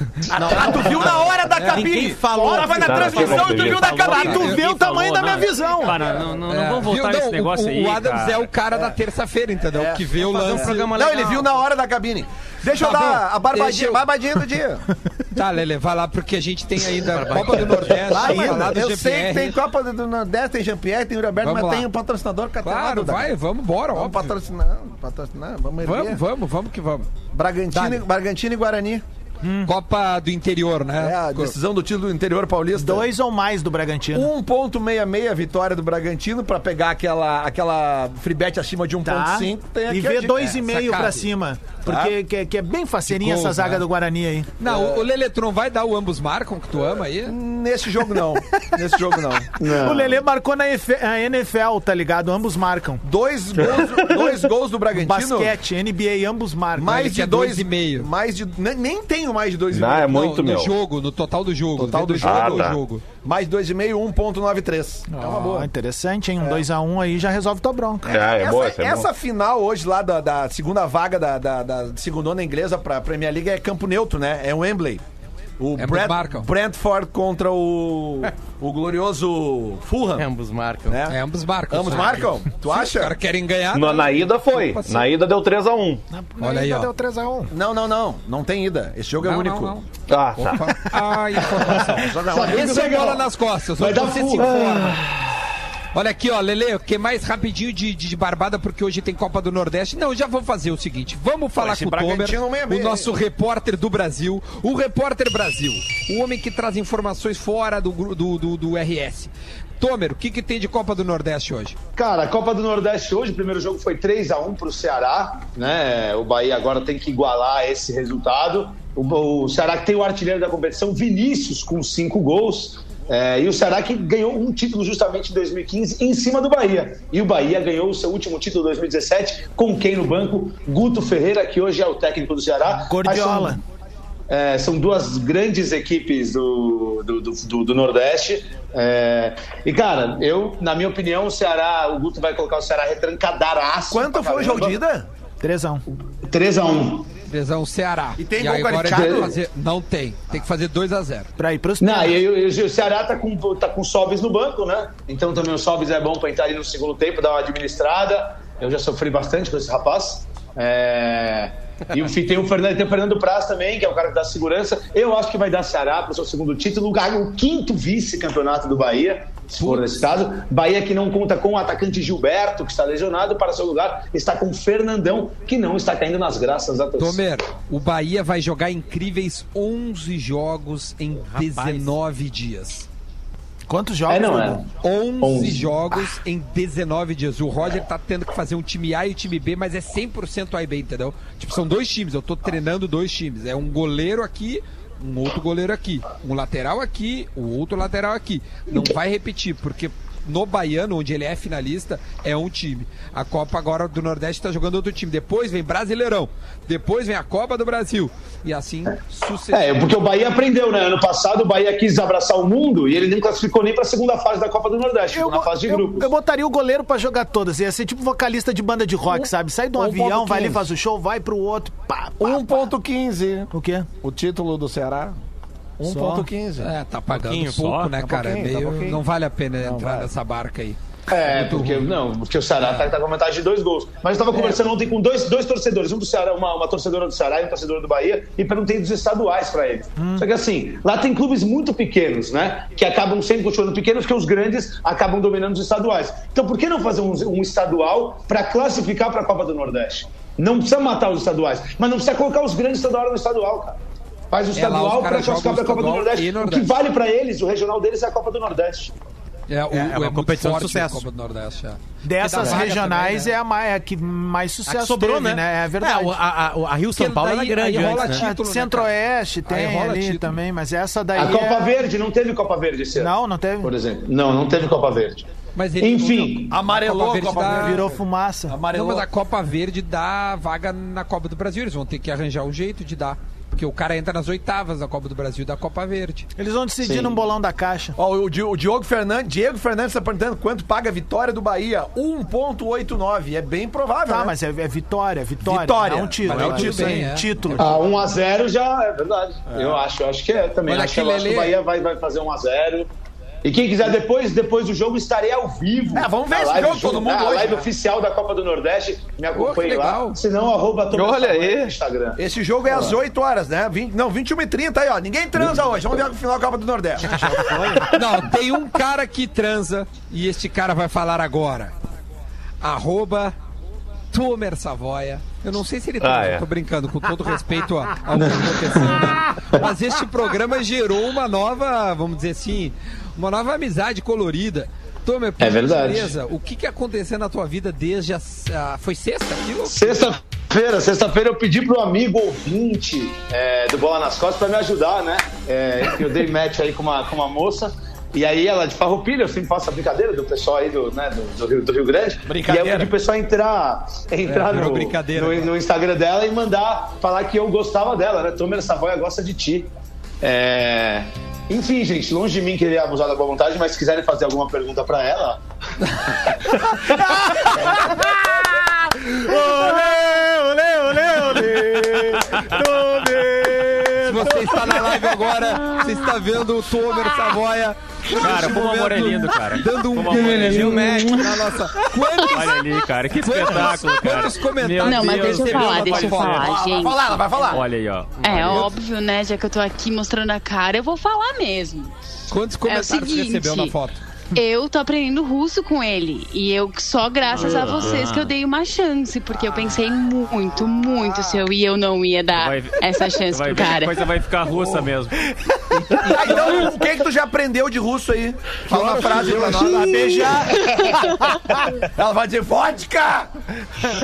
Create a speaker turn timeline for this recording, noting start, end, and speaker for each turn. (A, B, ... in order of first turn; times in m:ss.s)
0:00.3-0:04.6 A
0:00.3-0:03.8 B
0:02.3-0:03.0 C
0:02.7-0:04.2 D
0:03.6-0:08.4 E
0:03.9-0:06.0 C
0:04.0-0:04.6 F
0:06.5-0:10.9 F
0:09.7-0:14.9 A
0:10.2-0:11.6 B
0:12.8-0:14.0 F
0:15.3-0:19.6 F
0:17.1-0:18.0 B
0:18.0-0:23.3 A
0:18.2-0:18.8 C
0:21.4-0:21.9 F
0:22.6-0:24.3 F
0:23.9-0:26.2 A
0:25.8-0:27.1 F
0:27.3-0:29.0 A
0:27.7-0:28.0 F
0:29.4-0:29.7 C
0:29.6-0:31.6 F
0:31.0-0:33.1 A
0:32.8-0:34.3 C
0:34.1-0:40.4 A
0:39.0-0:44.6 C
0:40.4-0:41.3 F
0:41.9-0:42.1 A
0:43.1-0:43.8 F
0:44.6-0:47.4 F
0:44.6-0:45.0 A
0:47.3-0:49.6 A
0:49.6-0:50.2 G
0:49.7-0:53.0 C
0:53.0-0:55.6 A
0:53.7-0:54.2 D
0:54.9-0:57.1 C
0:56.8-1:00.2 A
0:56.8-0:58.1 F
0:59.7-1:00.8 D
1:00.0-1:03.0 F
1:01.8-1:05.7 A
1:02.2-1:02.8 D
1:05.1-1:08.1 C
1:08.1-1:09.1 D
1:08.1-1:15.0 A
1:15.6-1:20.3 A
1:15.8-1:16.5 F
1:20.0-1:21.0 B
1:20.9-1:21.2 A
1:21.1-1:25.1 F
1:21.7-1:23.2 A
1:23.7-1:26.0 D
1:26.1-1:27.5 C
1:26.4-1:26.9 F
1:27.5-1:29.8 A
1:29.2-1:35.0 F
1:30.1-1:30.7 D
1:32.0-1:33.0 A
1:32.2-1:34.6 G
1:35.9-1:51.8 F
1:41.6-1:43.1 A
1:52.0-2:13.6 G
2:12.7-2:13.6 C
2:14.3-2:24.8 G
2:23.9-2:25.1 A
2:25.4-2:25.8 C
2:26.1-2:27.1 G
2:27.3-2:31.3 F
2:28.2-2:29.3 A
2:28.9-2:29.3 G
2:31.4-2:32.2 C
2:31.8-2:57.2 G
2:57.0-3:02.9 F
3:01.3-3:02.0 B
3:03.7-3:04.6 C
3:04.1-3:05.8 G
3:04.8-3:29.9 F
3:29.5-3:36.1 G
3:35.1-3:42.7 C
3:39.8-3:40.6 A
3:42.2-3:43.5 A
3:43.5-3:43.9 C
3:44.0-3:45.1 A
3:45.8-3:46.7 A
3:45.8-3:46.3 C
3:46.6-3:51.9 F
3:47.1-3:47.6 B
3:47.6-3:47.9 E
3:48.0-3:49.0 A
3:49.6-3:50.1 A
3:51.1-4:13.8 G
4:00.0-4:00.3 C
4:14.3-4:18.9 G
4:14.5-4:16.7 F
4:19.5-4:23.3 F
4:19.7-4:21.0 B
4:22.0-4:26.2 C
4:22.2-4:22.7 B
4:24.7-4:28.3 B
4:27.0-4:29.0 F
4:28.0-4:31.8 C
4:29.5-4:30.4 F
4:31.2-4:35.3 G
4:33.0-4:33.7 C
4:35.6-4:37.8 F
4:35.8-4:36.6 G
4:36.5-4:39.1 A
4:37.5-4:38.6 C
4:38.7-4:46.3 F
4:46.4-4:48.0 C
4:48.0-4:54.3 A
4:54.1-4:57.8 C
4:55.4-4:57.0 A
4:56.2-4:57.7 F
4:57.6-5:02.9 G
4:59.5-4:59.8 A
5:00.7-5:01.6 F
5:03.4-5:13.0 G
5:05.9-5:07.7 A
5:09.3-5:10.2 F
5:10.9-5:11.8 D
5:12.2-5:17.7 A
5:17.9-5:21.7 F
5:22.6-5:23.3 F
5:24.1-5:40.1 F
5:26.0-5:26.4 D
5:28.3-5:28.8 G
5:35.4-5:36.1 G
5:39.7-6:05.4 G
5:52.3-5:52.9 A
5:54.2-5:55.5 F
6:06.1-6:06.5 G
6:06.8-6:15.8 C
6:14.0-6:26.5 F
6:18.1-6:20.8 E
6:20.3-6:21.3 B
6:20.4-6:21.1 G
6:22.2-6:26.8 E
6:24.8-6:27.2 H
6:26.4-6:27.6 A
6:27.4-6:28.7 E
6:28.2-6:31.9 H
6:32.3-6:34.0 F
6:32.7-6:33.7 H
6:34.3-6:44.1 H
6:37.3-6:38.3 E
6:42.4-6:45.2 E
6:44.5-6:44.9 A
6:45.7-6:46.8 F
6:46.0-6:50.2 A
6:48.7-6:51.8 C
6:51.9-6:53.3 A